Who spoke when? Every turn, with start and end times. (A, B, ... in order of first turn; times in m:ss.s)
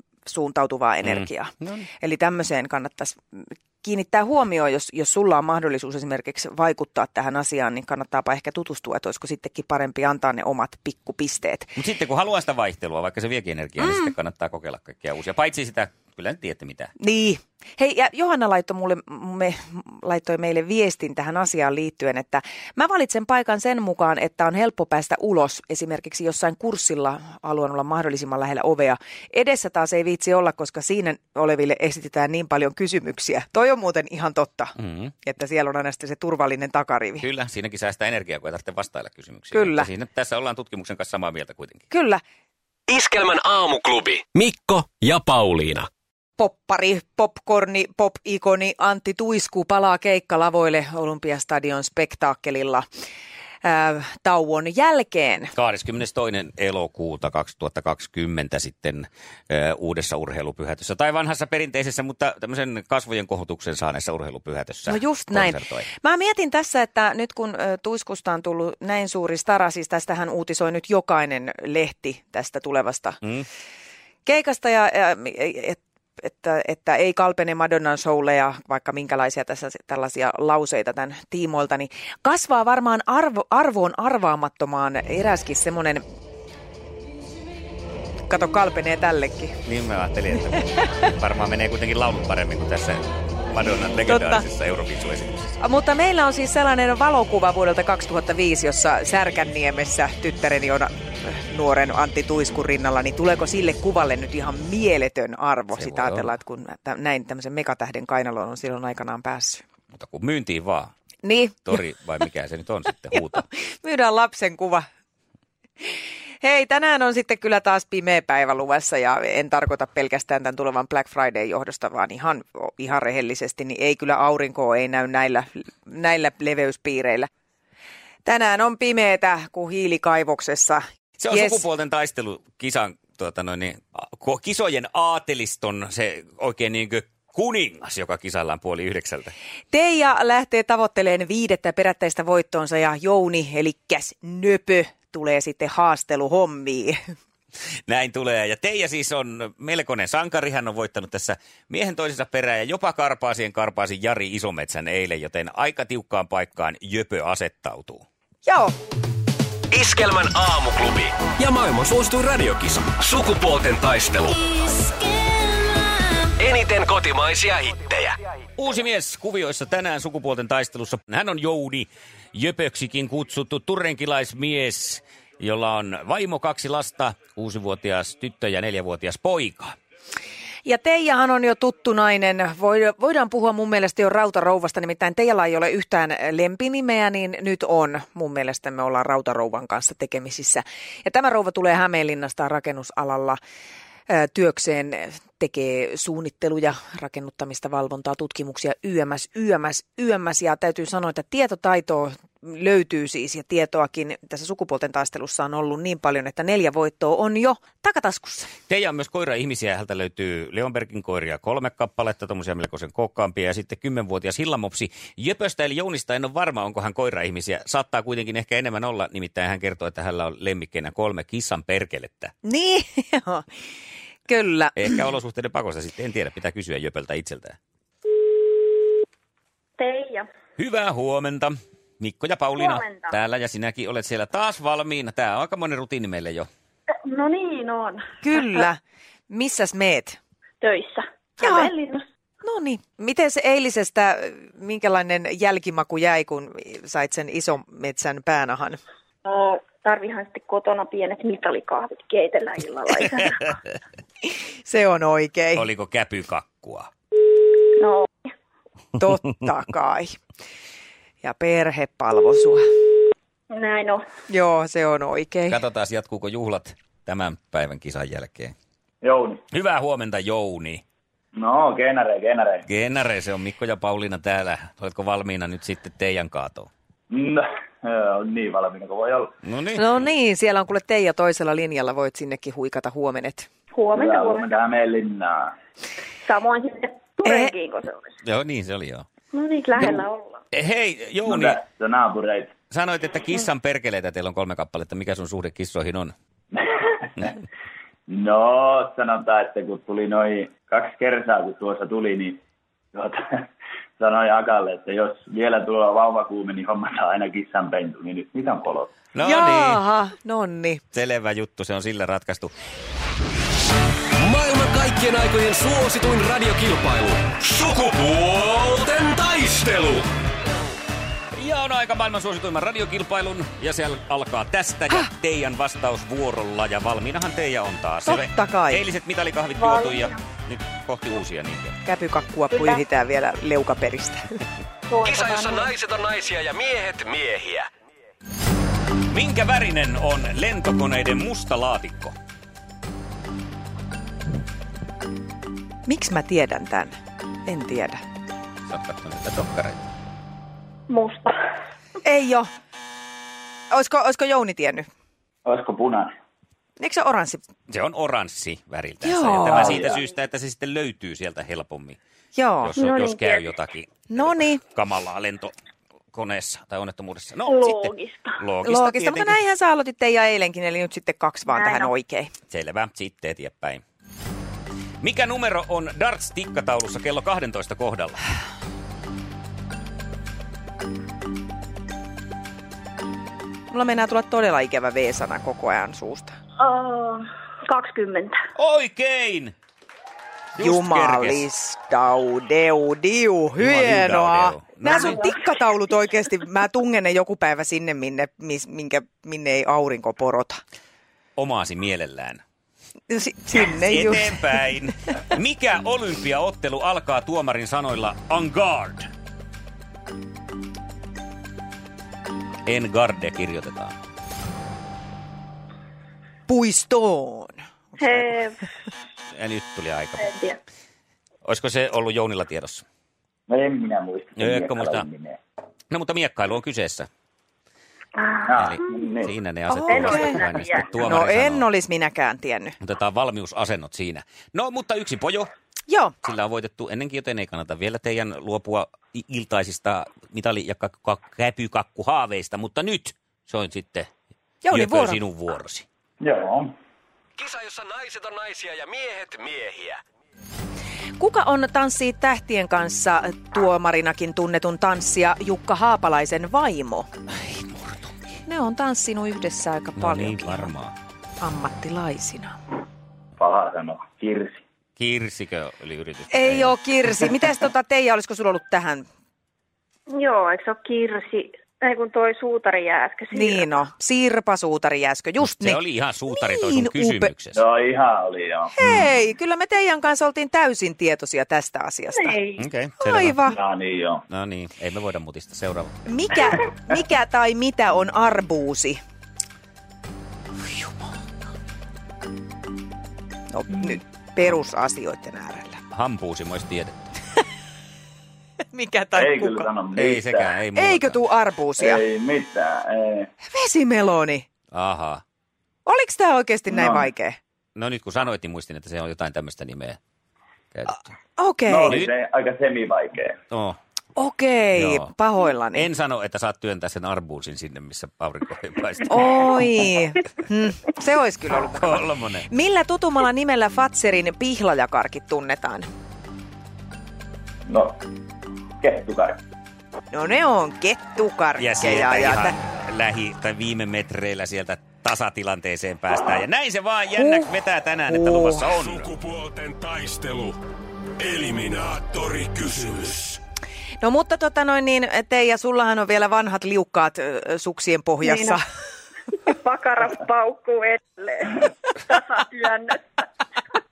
0:00.2-0:11.8 A
0:01.0-0:01.9 B
0:11.8-0:16.9 B
0:13.8-0:14.1 A
0:17.0-0:37.2 A
0:34.8-0:35.1 B
0:37.2-0:41.9 B
0:39.5-0:39.9 A
0:41.9-0:42.2 A
0:42.9-0:45.9 C
0:46.4-0:52.8 A
0:53.6-0:55.5 A
0:55.5-1:05.9 B
1:04.9-1:13.2 A
1:14.2-1:26.0 A
1:28.3-1:29.6 A
1:29.6-1:35.6 B
1:34.1-1:34.4 A
1:35.6-1:49.6 A
1:45.7-1:46.3 B
1:49.9-1:50.9 B
1:51.2-1:51.8 A
1:51.6-1:53.4 B
1:53.1-1:54.9 A
1:55.8-2:07.3 A
2:08.2-2:11.6 A
2:11.2-2:19.3 B
2:19.7-2:27.0 A
2:27.9-2:38.0 B
2:38.4-2:38.7 A
2:39.7-2:45.0 C
2:46.2-2:48.2 C
2:48.6-2:59.8 B
3:00.6-3:13.4 A
3:14.1-3:28.5 A
3:28.7-3:42.3 B
3:42.4-3:43.5 A
3:44.3-3:45.0 A
3:44.8-3:47.6 B
3:49.8-3:50.3 D
3:50.6-3:56.5 B
3:52.6-3:53.1 D
3:57.0-3:58.2 D
3:58.2-4:00.2 A
4:00.6-4:02.0 D
4:01.4-4:01.7 A
4:02.4-4:08.8 A
4:09.2-4:13.5 D
4:14.6-4:15.7 A
4:15.5-4:16.9 B
4:17.8-4:18.3 D
4:19.0-4:20.2 A
4:21.2-4:22.7 A
4:23.5-4:24.0 D
4:24.3-4:25.6 A
4:25.5-4:28.5 B
4:29.0-4:29.4 E
4:29.5-4:30.8 B
4:31.4-4:32.6 E
4:32.6-4:36.7 B
4:37.1-4:39.3 E
4:39.4-4:39.8 B
4:39.8-4:43.5 A
4:43.7-4:44.6 D
4:43.9-4:45.5 E
4:46.2-4:48.2 D
4:47.2-4:47.5 A
4:48.2-4:49.0 B
4:49.3-4:50.4 D
4:50.5-4:51.6 B
4:51.2-4:52.5 E
4:52.7-4:56.1 B
4:56.5-4:57.4 E
4:58.1-5:02.4 E
5:02.9-5:08.9 E
5:09.1-5:09.8 B
5:09.2-5:10.8 A
5:10.9-5:12.5 B
5:14.2-5:20.1 C
5:21.3-5:31.8 B
5:28.0-5:28.8 A
5:29.6-5:30.2 D
5:31.8-5:34.4 A
5:32.5-5:32.8 D
5:34.9-5:35.7 D
5:35.0-5:37.7 C
5:39.1-5:42.2 B
5:45.9-5:47.0 A
5:47.5-5:48.0 A
5:48.7-5:49.9 B
5:50.9-5:51.4 D
5:52.0-5:52.5 A
5:53.7-5:54.9 A
5:55.4-5:56.1 E
5:56.8-5:57.4 A
5:57.7-6:02.0 B
5:59.0-5:59.8 A
5:59.5-6:00.0 E
6:02.4-6:02.8 A
6:02.6-6:05.5 B
6:02.8-6:03.5 D
6:04.1-6:04.6 A
6:06.1-6:09.4 B
6:07.5-6:08.4 D
6:08.6-6:12.3 A
6:11.5-6:11.9 D
6:12.5-6:13.8 B
6:15.0-6:18.2 B
6:23.7-6:26.4 A
6:26.6-6:28.4 D
6:28.6-6:29.5 B
6:30.6-6:31.5 B
6:30.6-6:40.6 A
6:33.6-6:35.3 B
6:34.9-6:35.4 D
6:41.4-6:42.4 B
6:43.1-6:44.7 A
6:43.6-6:49.1 B
6:52.6-6:54.0 B
6:56.5-6:58.4 A
6:58.0-6:58.7 D
6:59.3-7:00.3 B
7:00.2-7:00.6 D
7:01.4-7:02.8 B
7:03.5-7:05.4 E
7:04.4-7:05.0 B
7:05.9-7:07.1 B
7:08.2-7:09.1 D
7:08.4-7:09.4 E
7:08.5-7:11.7 B
7:09.7-7:10.4 A
7:09.9-7:11.0 D
7:10.1-7:10.8 E
7:11.0-7:12.8 A
7:12.8-7:15.5 B
7:15.9-7:16.1 A
7:16.2-7:24.1 B
7:24.6-7:25.2 A
7:24.7-7:25.9 B
7:26.2-7:26.7 E
7:27.4-7:30.0 C
7:31.2-7:37.1 A
7:37.3-7:38.4 B
7:38.5-7:40.7 A
7:40.0-7:41.0 B
7:41.4-7:42.6 A
7:43.4-7:44.6 E
7:45.0-7:46.8 B
7:46.3-7:49.0 A
7:50.1-7:53.7 D
7:53.3-7:57.3 A
7:55.4-7:57.6 B
7:57.5-7:58.7 E
7:58.8-8:02.4 A
8:02.1-8:02.6 D
8:02.6-8:03.4 B
8:03.0-8:03.6 A
8:03.5-8:04.2 E
8:04.3-8:05.9 B
8:06.0-8:09.0 A
8:13.5-8:15.8 A
8:15.9-8:17.1 B
8:18.7-8:19.7 A
8:19.2-8:20.6 E
8:19.9-8:21.2 B
8:20.8-8:22.0 A
8:21.8-8:23.3 E
8:23.4-8:24.5 A
8:24.7-8:25.2 B
8:25.9-8:27.4 A
8:26.7-8:27.1 E
8:27.8-8:30.0 B
8:30.7-8:31.1 B
8:31.4-8:32.0 A
8:31.7-8:33.4 E
8:31.9-8:32.1 B
8:33.5-8:33.8 B
8:34.2-8:35.9 A
8:34.7-8:35.1 B
8:35.7-8:39.6 B
8:39.1-8:45.9 A
8:41.8-8:42.5 B
8:47.7-8:48.0 E
8:48.8-8:49.4 E
8:50.1-8:52.6 A
8:51.6-8:59.1 B
8:57.2-8:57.5 A
8:58.1-8:58.6 A
8:58.6-9:00.6 C
9:01.2-9:03.4 C
9:04.0-9:08.6 A
9:08.2-9:08.6 D
9:09.3-9:13.2 D